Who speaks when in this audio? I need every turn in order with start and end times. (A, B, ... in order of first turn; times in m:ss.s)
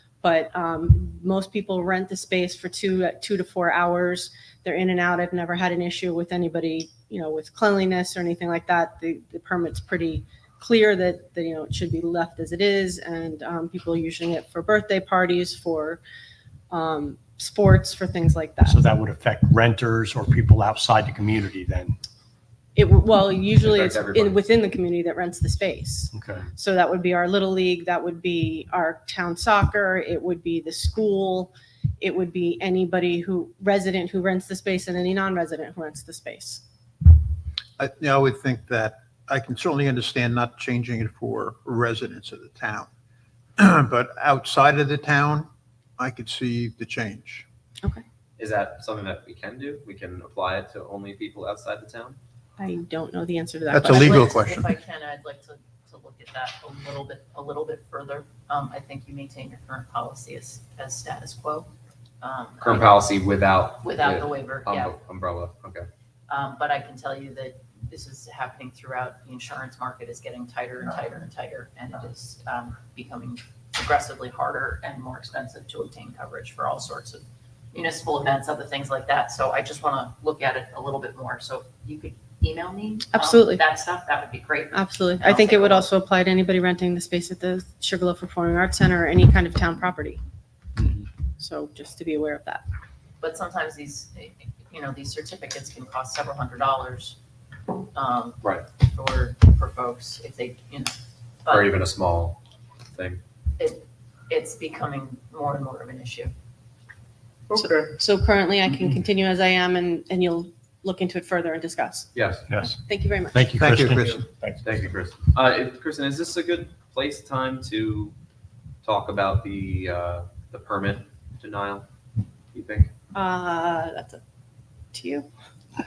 0:00.2-0:16.0 A
0:16.7-0:18.8 A
0:18.7-0:22.0 B
0:22.8-0:36.6 A
0:23.6-0:24.4 C
0:26.1-0:26.4 B
0:37.8-0:42.9 D
0:43.6-0:47.4 D
0:48.4-0:52.2 C
0:52.6-0:54.3 A
0:53.7-0:54.7 D
0:53.9-1:01.7 E
1:02.2-1:03.0 E
1:02.6-1:05.9 C
1:03.8-1:04.9 E
1:06.3-1:25.9 E
1:23.1-1:23.6 A
1:24.7-1:30.2 A
1:31.4-1:32.6 A
1:33.2-1:37.2 E
1:37.9-1:41.8 E
1:41.5-1:42.4 C
1:43.0-1:43.2 C
1:43.6-1:46.3 E
1:47.5-1:48.0 C
1:47.6-1:52.1 A
1:52.1-1:52.4 C
1:52.5-1:52.8 B
1:52.8-1:53.5 A
1:53.3-1:54.6 B
1:53.6-1:54.3 D
1:54.6-1:58.2 C
1:58.8-2:01.9 C
2:02.5-2:02.9 C
2:03.1-2:04.2 A
2:04.9-2:05.3 A